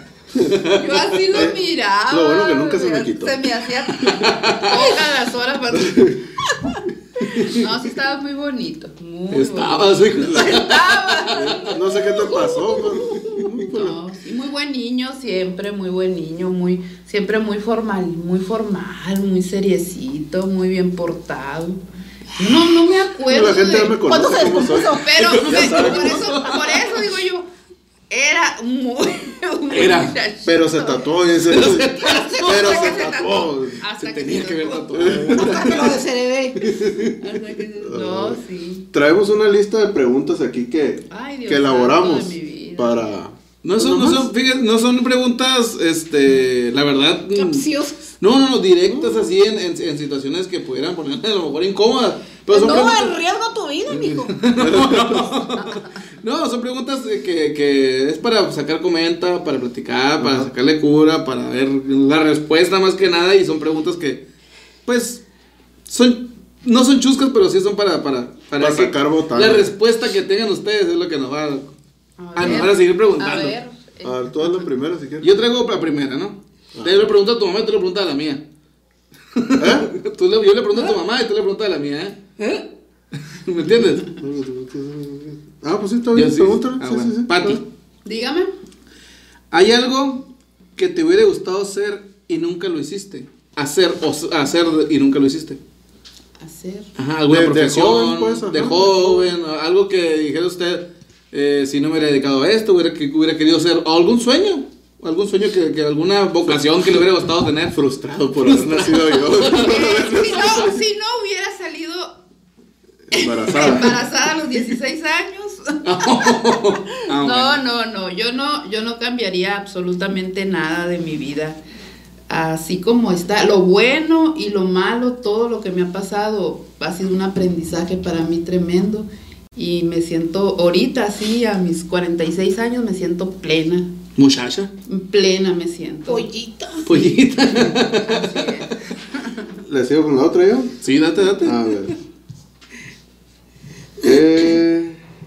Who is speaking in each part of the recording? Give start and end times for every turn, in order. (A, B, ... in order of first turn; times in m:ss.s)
0:00.5-0:00.8 A
0:00.7-0:06.1 B
0:01.3-0:01.6 C
0:02.1-0:03.4 C
0:04.1-0:04.7 A
0:05.7-0:06.2 C
0:07.4-0:11.7 B
0:09.3-0:11.6 A
0:11.6-0:13.4 D
0:11.7-0:14.0 C
0:12.3-0:12.8 B
0:13.7-0:21.8 B
0:22.4-0:24.0 B
0:23.3-0:26.2 C
0:24.1-0:25.1 D
0:24.8-0:27.5 B
0:25.2-0:26.6 A
0:26.2-0:26.7 D
0:28.1-0:31.0 B
0:29.7-0:30.1 A
0:30.4-0:33.8 C
0:31.5-0:32.2 A
0:32.0-0:33.1 D
0:32.3-0:35.2 B
0:34.0-0:36.0 A
0:34.9-0:35.7 C
0:35.4-0:36.6 D
0:36.6-0:37.2 A
0:37.2-0:38.9 B
0:37.8-0:38.4 C
0:38.9-0:44.3 C
0:41.1-0:43.1 B
0:43.6-0:47.7 A
0:47.4-0:48.0 D
0:48.2-0:53.2 A
0:48.8-0:49.3 C
0:52.5-0:54.4 D
0:53.9-1:04.2 A
0:54.6-0:55.4 C
1:00.2-1:00.5 C
1:04.9-1:05.2 A
1:05.9-1:11.7 A
1:08.6-1:09.7 C
1:12.2-1:14.6 B
1:12.4-1:13.6 A
1:12.4-1:12.7 C
1:14.0-1:15.3 C
1:15.2-1:18.4 A
1:16.8-1:17.1 C
1:19.3-1:22.2 A
1:19.6-1:19.9 C
1:22.4-1:22.6 D
1:23.3-1:24.1 A
1:24.2-1:27.6 C
1:26.1-1:27.6 A
1:28.0-1:28.5 B
1:29.5-1:35.6 A
1:36.4-1:36.9 B
1:37.0-1:47.8 A
1:37.3-1:39.3 C
1:46.5-1:47.0 C
1:47.7-1:50.8 C
1:48.5-1:49.9 A
1:49.6-1:52.2 B
1:53.1-1:54.0 C
1:53.1-1:56.6 B
1:55.8-1:57.6 A
1:57.2-2:01.6 B
2:02.3-2:13.9 B
2:14.2-2:14.7 A
2:14.9-2:16.3 B
2:16.1-2:17.1 D
2:16.8-2:18.2 A
2:17.6-2:18.7 B
2:19.6-2:20.8 C
2:20.8-2:21.8 A
2:21.4-2:22.0 C
2:24.0-2:25.0 C